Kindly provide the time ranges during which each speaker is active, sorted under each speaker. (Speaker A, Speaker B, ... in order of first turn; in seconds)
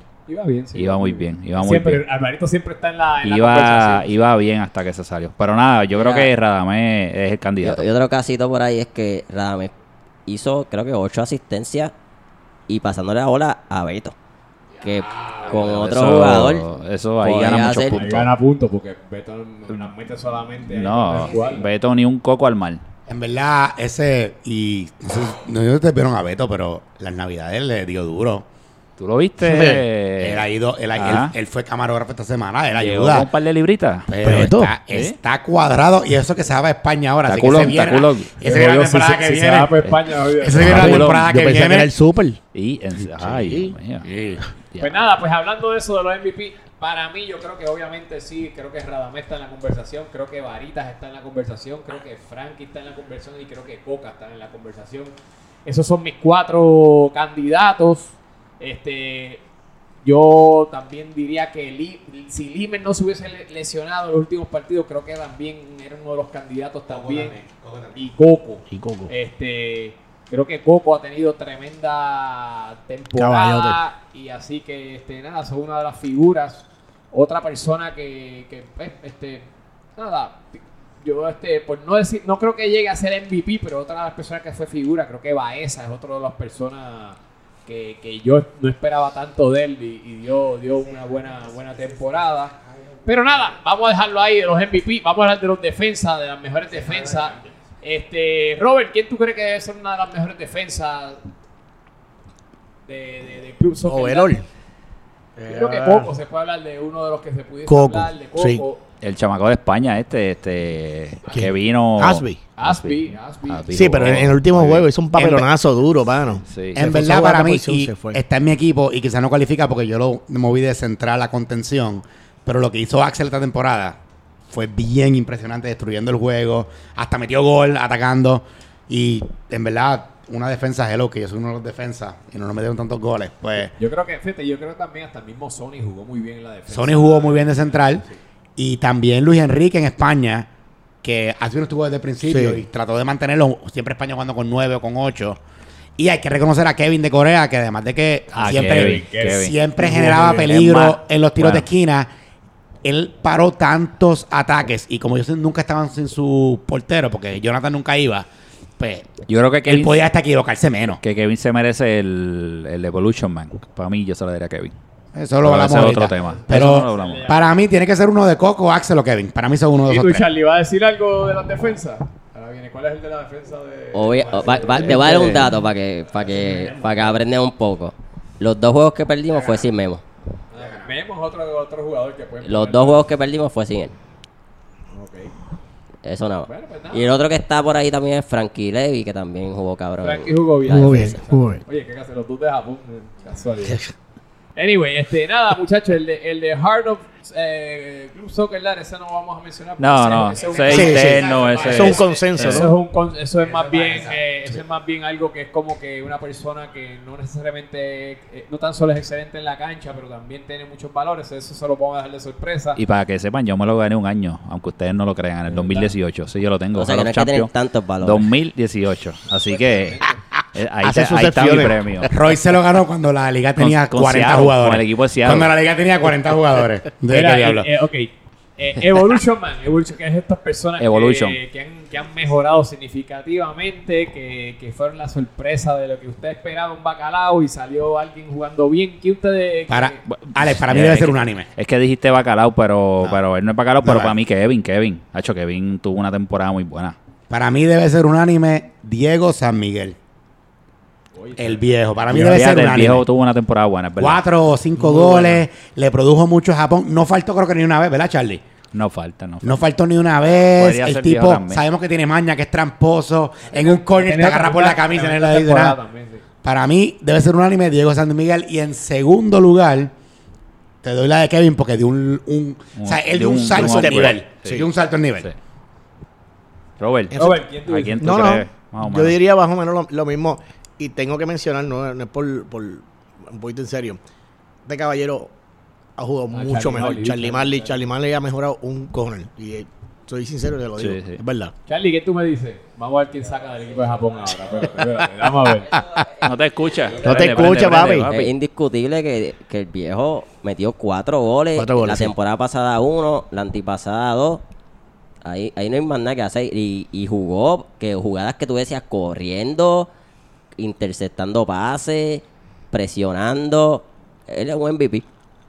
Speaker A: 0.3-4.2, 17.9-21.6, 38.4-40.8, 44.8-55.1, 55.6-59.4, 60.0-67.4, 67.9-92.5, 93.0-101.3, 102.8-104.4, 105.5-108.8, 112.6-114.0, 133.8-138.2, 148.4-150.5, 166.0-167.7, 169.8-177.2, 180.5-183.1, 184.9-185.3, 186.4-187.2, 190.0-193.8, 194.6-212.8, 215.5-215.9, 219.5-220.2, 227.1-240.0, 251.1-251.7, 263.5-266.2, 277.1-278.3, 286.3-287.8, 291.7-295.7
Speaker B: 0.7-2.0, 3.2-7.8, 15.6-18.3, 20.7-22.8, 29.0-31.3, 32.7-35.1, 37.2-38.3, 39.8-41.3, 42.5-44.1, 44.7-45.0, 109.0-114.9, 116.5-116.8, 148.3-151.7, 159.3-160.0, 161.0-164.7, 165.4-167.3, 174.9-175.4, 199.8-202.7, 212.8-220.0, 220.5-222.1, 223.6-225.5, 230.8-231.4, 240.1-246.9, 252.1-254.2, 258.7-259.6, 260.6-261.6, 272.8-274.7, 276.8-279.1, 290.8-291.2, 296.2-298.3
Speaker C: 5.9-6.3, 7.6-9.7, 10.3-11.9, 12.7-14.1, 14.8-16.6, 17.2-18.0, 173.9-180.0, 182.4-183.9, 186.0-191.1, 216.7-218.3, 298.1-304.4, 305.2-309.9, 310.6-315.1
Speaker D: 14.7-15.8, 21.1-21.7, 23.1-28.4, 30.2-33.3, 34.1-39.8, 40.4-41.9, 44.0-44.5, 66.9-68.0, 90.8-93.4, 96.7-97.5, 115.2-115.4, 116.7-133.7, 136.7-138.0, 138.6-140.5, 141.0-145.4, 146.0-152.1, 152.8-161.0, 165.1-170.2, 174.4-174.8, 180.6-180.9, 200.3-202.2, 203.4-204.4, 222.1-227.7, 239.7-241.5, 243.8-244.2, 247.3-250.0, 251.4-253.0, 254.0-258.4, 259.4-265.8, 266.4-269.9, 270.8-275.3, 295.7-296.1
Speaker E: 29.4-29.8, 34.2-34.7, 40.6-42.4, 43.0-43.8, 68.7-69.1, 73.2-73.8, 103.8-104.4, 105.3-106.1, 107.7-108.6, 111.3-112.4, 113.7-118.2, 142.2-142.6, 190.7-191.6, 193.7-193.9, 200.7-202.8, 220.8-222.2, 254.8-255.3, 273.5-274.7, 277.1-277.4, 278.0-284.0, 284.6-285.3, 286.0-291.5, 297.0-298.1, 301.6-302.1